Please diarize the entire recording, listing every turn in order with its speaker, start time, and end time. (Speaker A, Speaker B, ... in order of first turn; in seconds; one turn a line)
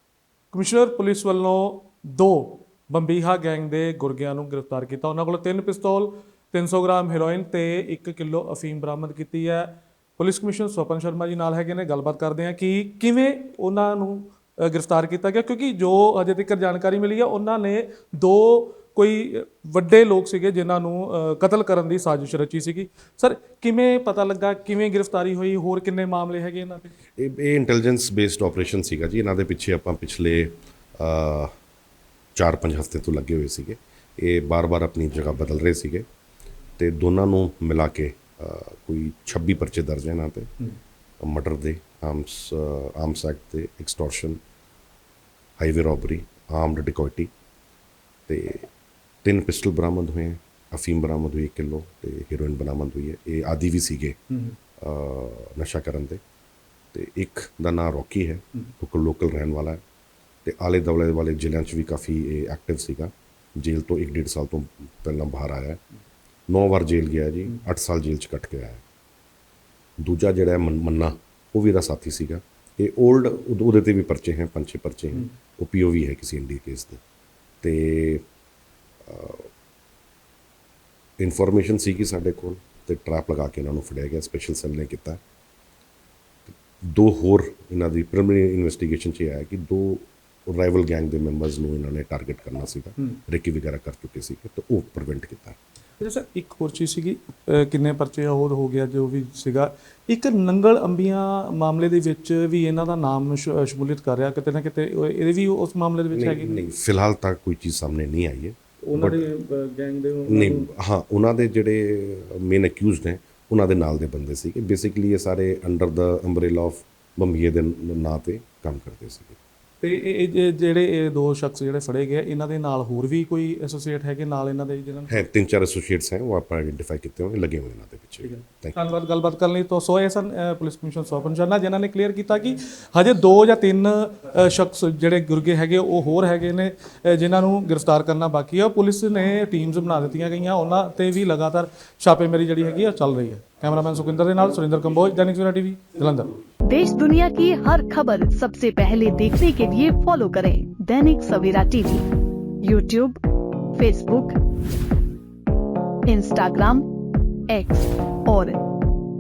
Speaker A: 0.5-26.9
Speaker B: 27.2-31.5
Speaker B: 32.4-36.1
Speaker B: 36.8-40.5
Speaker B: 41.2-44.4
Speaker B: 45.6-47.3
Speaker B: 48.3-48.7
Speaker B: 49.2-54.2
Speaker B: 54.8-56.2
Speaker B: 56.9-59.8
Speaker B: 60.5-65.8
Speaker B: 66.5-68.8
Speaker B: 70.0-77.0
Speaker B: 77.6-78.2
Speaker B: 79.0-79.5
Speaker B: 81.2-85.2
Speaker B: 86.5-95.6
Speaker A: 96.0-106.6
Speaker B: 106.1-109.3
Speaker A: 108.9-110.7
Speaker B: 110.3-119.4
Speaker A: 119.8-125.2
Speaker B: 125.1-128.8
Speaker A: 128.2-146.4
Speaker C: 146.7-152.1
Speaker C: 152.6-153.2
Speaker C: 153.8-154.4
Speaker C: 156.1-156.8
Speaker C: 157.5-158.6